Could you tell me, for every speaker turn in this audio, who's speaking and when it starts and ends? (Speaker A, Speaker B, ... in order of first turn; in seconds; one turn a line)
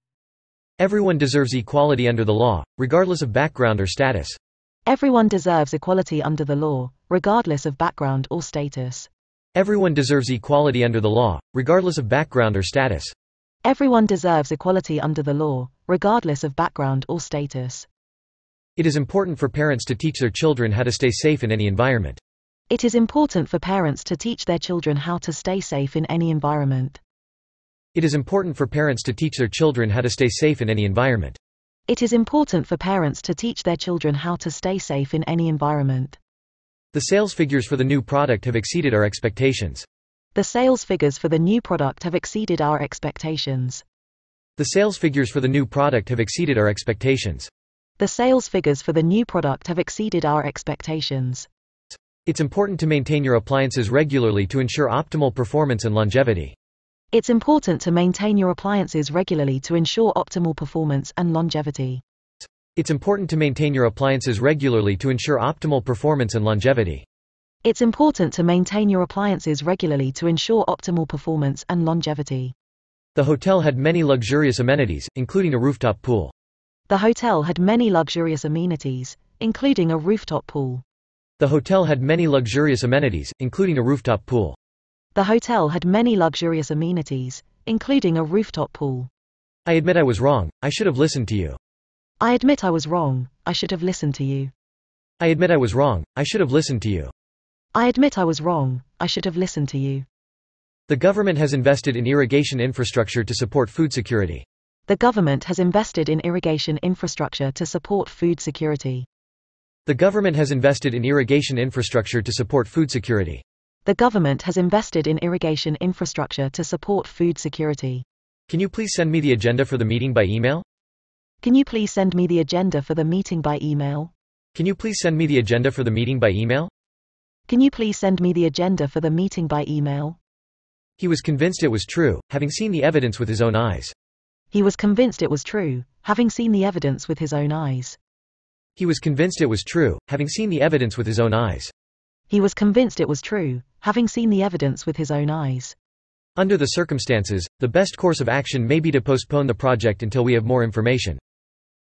Speaker A: 0.8-4.4
Speaker B: 4.9-9.1
Speaker A: 9.6-13.1
Speaker B: 13.6-17.9
Speaker A: 18.8-22.2
Speaker B: 22.7-27.0
Speaker A: 27.9-31.4
Speaker B: 31.9-36.2
Speaker A: 36.9-39.9
Speaker B: 40.3-43.8
Speaker A: 44.6-47.5
Speaker B: 48.0-51.5
Speaker A: 52.2-56.5
Speaker B: 57.1-62.0
Speaker A: 62.7-67.0
Speaker B: 67.6-72.5
Speaker A: 73.1-76.3
Speaker B: 76.9-80.8
Speaker A: 81.4-84.6
Speaker B: 85.1-89.1
Speaker A: 89.7-91.6
Speaker B: 92.2-94.5
Speaker A: 95.2-97.1
Speaker B: 97.7-100.0
Speaker A: 100.9-104.4
Speaker B: 104.9-109.1
Speaker A: 109.8-113.4
Speaker B: 113.8-118.0
Speaker A: 118.5-120.6
Speaker B: 121.4-124.1
Speaker A: 124.5-126.7
Speaker B: 127.5-130.2
Speaker A: 131.0-133.9
Speaker B: 134.5-138.0
Speaker A: 138.8-141.7
Speaker B: 142.3-145.8
Speaker A: 146.4-151.2